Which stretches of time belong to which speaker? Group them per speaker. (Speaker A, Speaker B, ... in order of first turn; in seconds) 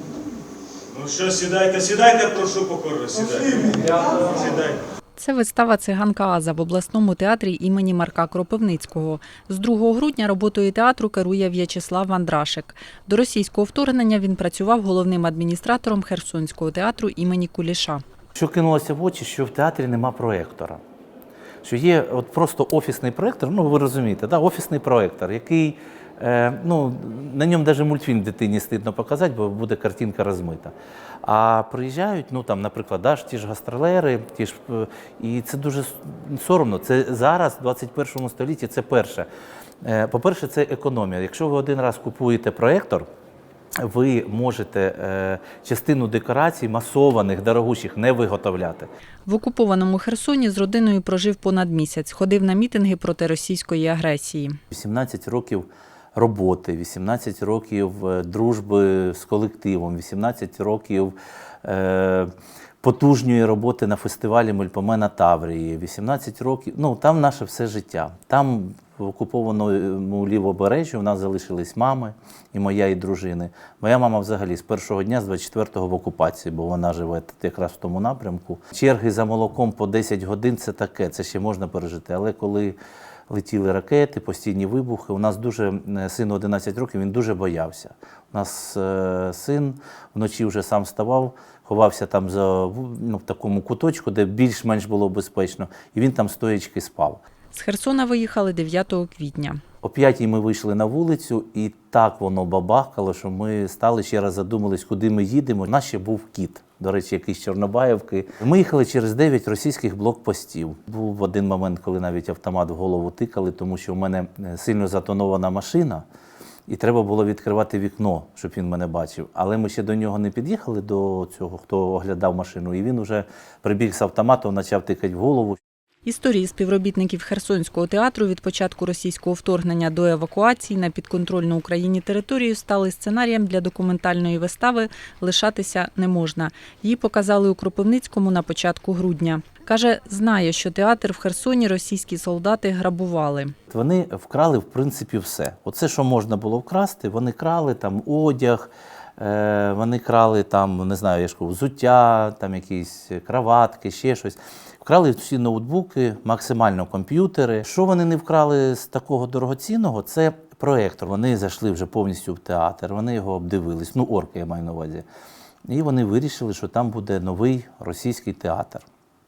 Speaker A: 0.9-4.8
Speaker B: 5.2-18.0, 49.2-54.6, 97.5-99.6, 126.0-143.5
Speaker C: 18.3-20.8, 21.6-30.7, 31.2-39.3, 39.8-43.1, 43.8-48.9, 54.7-62.3, 62.8-82.8, 83.3-97.2, 99.8-116.0, 116.7-125.6, 143.7-165.0, 165.7-168.8